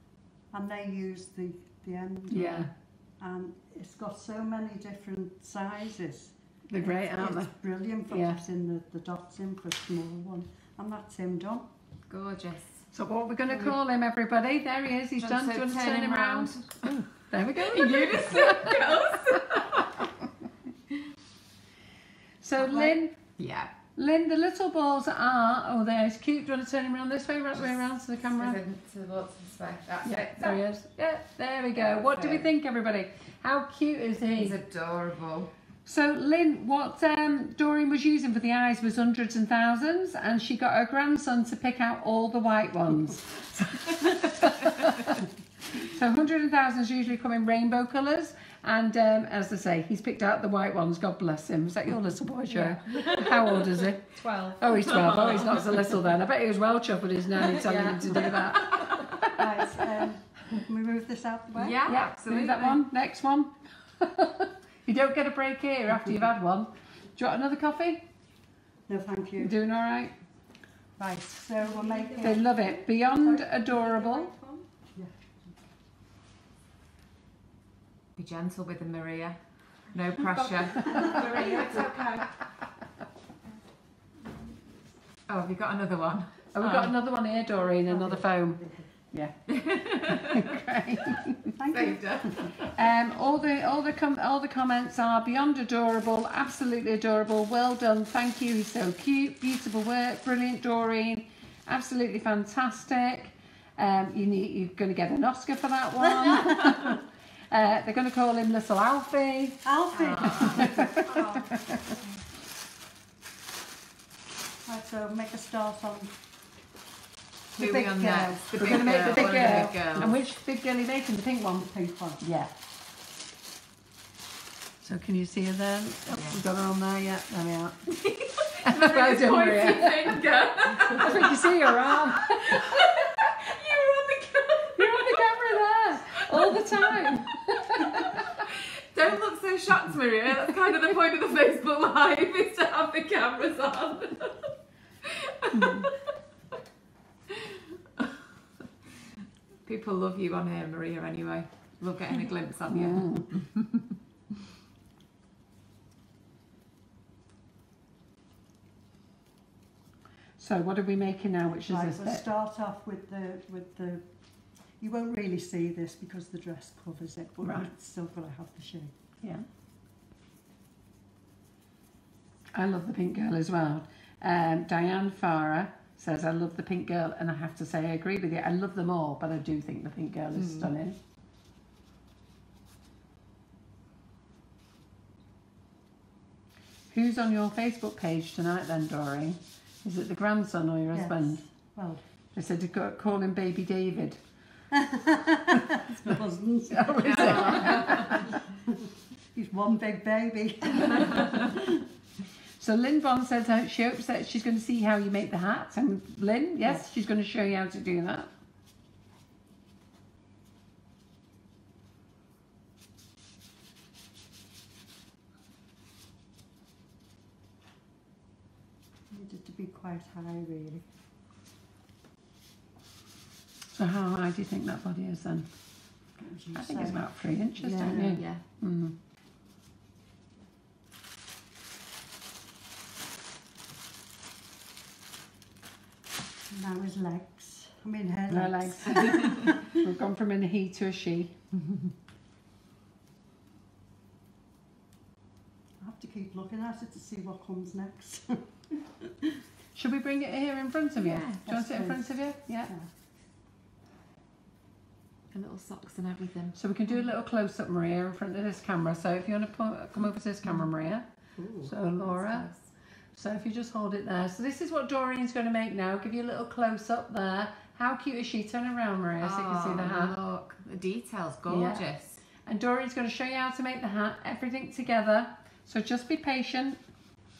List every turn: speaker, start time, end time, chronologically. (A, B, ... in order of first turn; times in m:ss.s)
0:00.5-0:11.7 A
0:02.3-0:02.7 B
0:06.7-0:07.5 B
0:08.1-0:08.4 B
0:12.1-0:12.9 C
0:12.9-0:19.4 B
0:15.2-0:16.7 C
0:17.6-0:19.9 C
0:22.4-0:23.1 B
0:22.6-0:23.7 C
0:23.9-0:28.6 B
0:28.2-0:30.6 C
0:30.0-0:34.6 B
0:31.8-0:32.5 C
0:34.4-0:35.5 C
0:35.8-0:59.4 B
0:52.5-0:53.0 A
0:52.9-0:53.5 C
0:54.2-0:54.6 D
0:54.8-0:55.8 C
0:57.4-0:59.2 C
0:59.3-1:01.8 A
1:01.6-1:02.8 C
1:01.9-1:08.0 B
1:08.9-1:09.5 A
1:09.4-1:10.1 B
1:11.0-1:12.5 A
1:11.8-1:12.4 D
1:12.2-1:14.3 B
1:13.2-1:14.6 D
1:14.9-1:15.5 A
1:18.2-1:21.1 C
1:20.9-1:22.3 D
1:20.9-1:21.4 A
1:25.3-1:26.9 C
1:26.5-1:31.5 B
1:27.8-1:28.9 A
1:29.5-1:30.5 C
1:31.6-1:32.5 A
1:31.7-1:32.7 C
1:32.6-1:49.6 B
1:46.2-1:46.7 A
1:49.6-1:51.0 A
1:49.9-1:51.4 C
1:50.4-1:51.8 B
1:54.6-1:56.2 A
1:57.5-1:59.7 A
1:57.6-2:00.2 C
1:58.6-2:02.5 B
2:01.6-2:02.2 A
2:04.8-2:07.9 B
2:06.1-2:06.4 C
2:07.9-2:15.2 C
2:08.6-2:10.2 B
2:10.9-2:12.9 B
2:14.8-2:18.2 B
2:16.2-2:17.0 C
2:18.3-2:24.5 C
2:25.1-2:26.0 C
2:25.6-2:25.9 B
2:29.6-2:33.8 C
2:32.7-2:33.2 B
2:40.4-2:42.2 B
2:41.6-2:44.1 A
2:44.7-2:48.9 A
2:47.4-2:47.7 B
2:52.5-3:01.0 B
3:00.4-3:00.7 C
3:06.9-3:11.4 B
3:10.9-3:12.0 A
3:12.3-3:14.2 B
3:14.7-3:17.9 A
3:16.7-3:18.2 B
3:17.0-3:18.1 C
3:18.6-3:21.8 A
3:22.6-3:28.3 B
3:39.1-3:40.9 A
3:43.7-3:45.5 B
3:46.2-3:48.2 A
3:46.5-3:48.9 B
3:48.1-3:48.4 C
3:56.5-3:59.5 A
3:58.3-4:01.3 B
4:05.8-4:09.3 A
4:09.7-4:12.7 B
4:11.0-4:11.4 C
4:11.4-4:12.9 A
4:15.3-4:16.6 C
4:16.5-4:21.0 B
4:21.4-4:22.7 C
4:21.6-4:22.5 B
4:23.1-4:30.1 B
4:29.2-4:32.2 C
4:31.5-4:31.8 B
4:32.4-4:36.8 B